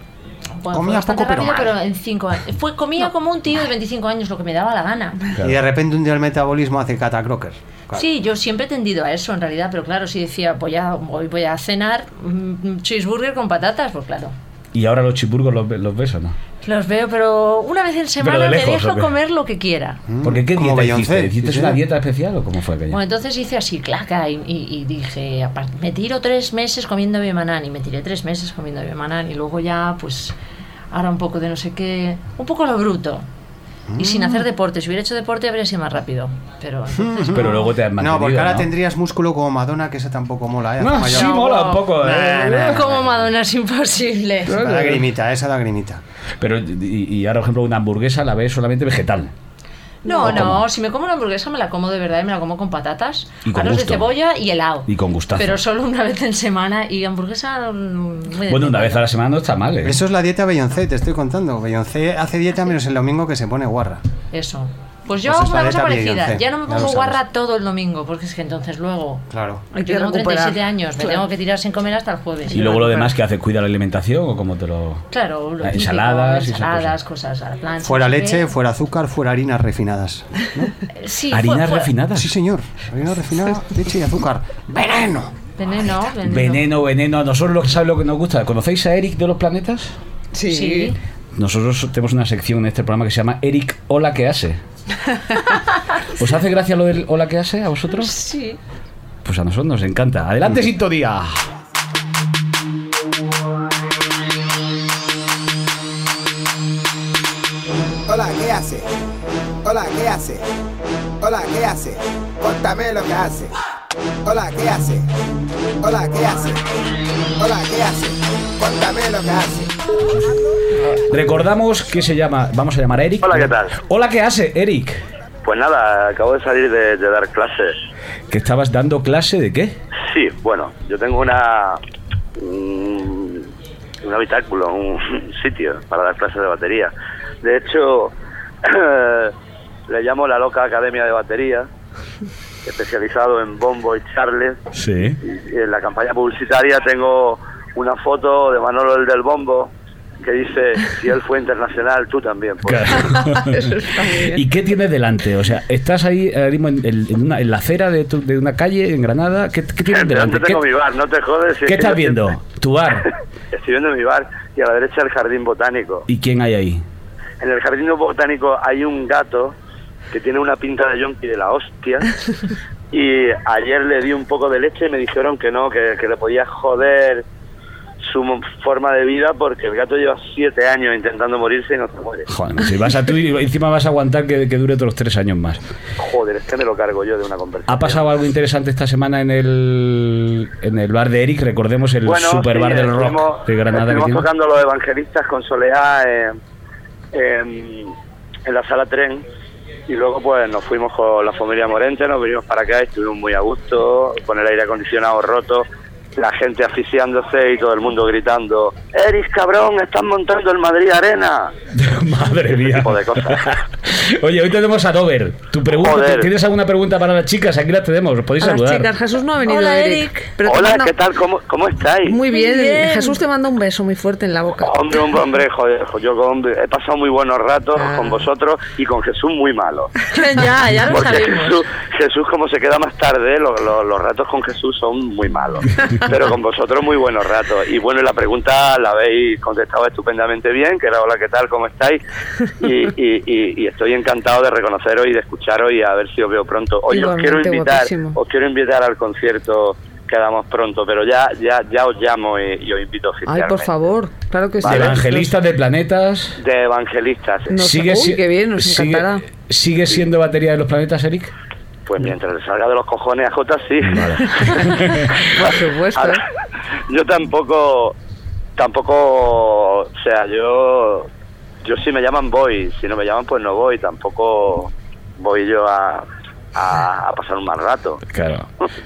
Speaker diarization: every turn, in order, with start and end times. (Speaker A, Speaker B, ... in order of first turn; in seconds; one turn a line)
Speaker A: 0.6-5.2
Speaker B: 0.7-1.8
Speaker B: 5.4-8.1
Speaker A: 7.9-14.3
Speaker C: 14.7-16.4
Speaker A: 16.6-20.0
Speaker C: 18.2-19.1
Speaker B: 20.1-21.8
Speaker C: 20.2-23.0
Speaker A: 22.9-30.4
Speaker A: 30.9-33.3
Speaker B: 33.9-34.4
Speaker A: 34.0-37.7
Speaker B: 36.9-41.3
Speaker C: 37.3-38.7
Speaker C: 40.8-42.8
Speaker A: 41.0-44.6
Speaker B: 42.0-43.2
Speaker B: 44.5-46.0
Speaker C: 44.5-45.1
Speaker C: 46.4-49.3
Speaker D: 50.0-50.4
Speaker A: 50.0-59.1
Speaker C: 50.2-50.6
Speaker C: 53.5-54.1
Speaker C: 54.9-55.6
Speaker C: 58.5-60.0
Speaker B: 59.8-64.0
Speaker A: 64.3-69.2
Speaker B: 65.2-67.2
Speaker B: 69.3-69.7
Speaker D: 69.7-71.2
Speaker A: 69.8-72.8
Speaker D: 72.5-73.1
Speaker C: 72.5-75.0
Speaker A: 75.1-78.5
Speaker C: 75.6-76.9
Speaker B: 77.8-80.7
Speaker A: 80.9-81.9
Speaker C: 81.3-82.3
Speaker B: 82.2-85.3
Speaker A: 85.6-86.7
Speaker C: 86.2-90.0
Speaker D: 90.3-91.0
Speaker A: 90.5-91.0
Speaker C: 91.3-94.6
Speaker C: 96.1-98.2
Speaker A: 98.0-98.6
Speaker C: 99.2-101.5
Speaker E: 108.1-108.9
Speaker E: 109.6-110.4
Speaker E: 111.2-113.5
Speaker E: 114.2-115.1
Speaker E: 115.8-116.6
Speaker E: 117.4-119.7
Speaker C: 121.1-125.0
Speaker F: 123.2-123.7
Speaker F: 125.4-127.8
Speaker C: 128.3-129.8
Speaker F: 130.1-131.8
Speaker F: 132.4-133.5
Speaker F: 134.0-139.3
Speaker F: 139.9-141.7
Speaker F: 142.7-144.6
Speaker C: 144.7-145.2
Speaker F: 145.2-153.0
Speaker C: 152.7-160.6
Speaker D: 153.4-154.4
Speaker F: 159.9-162.2
Speaker C: 161.7-163.1
Speaker F: 163.5-166.1
Speaker C: 166.1-166.8
Speaker F: 167.4-169.6
Speaker F: 170.1-172.1
Speaker F: 172.9-177.2
Speaker F: 178.0-182.3
Speaker C: 182.3-185.6
Speaker F: 186.0-188.0
Speaker C: 187.7-194.3
Speaker F: 192.1-196.4
Speaker F: 197.1-197.9
Speaker F: 198.5-199.2
Speaker F: 199.9-211.5
Speaker C: 211.7-218.9
Speaker F: 212.7-213.5
Speaker F: 215.7-216.3
Speaker D: 218.4-220.9
Speaker A: 219.4-220.3
Speaker F: 220.4-222.2
Speaker D: 222.0-225.1
Speaker A: 222.3-223.2
Speaker F: 224.6-229.9
Speaker D: 227.8-228.3
Speaker A: 230.1-231.6
Speaker F: 230.9-242.0
Speaker F: 242.6-253.7
Speaker D: 246.9-248.2
Speaker D: 253.3-255.3
Speaker C: 254.6-256.4
Speaker F: 256.4-257.6
Speaker D: 257.5-259.2
Speaker C: 257.6-261.3
Speaker F: 261.9-264.5
Speaker C: 263.8-265.1
Speaker D: 264.4-266.2
Speaker F: 265.9-266.2
Speaker F: 266.9-267.9
Speaker F: 268.6-271.1
Speaker F: 271.6-278.0
Speaker C: 278.1-278.5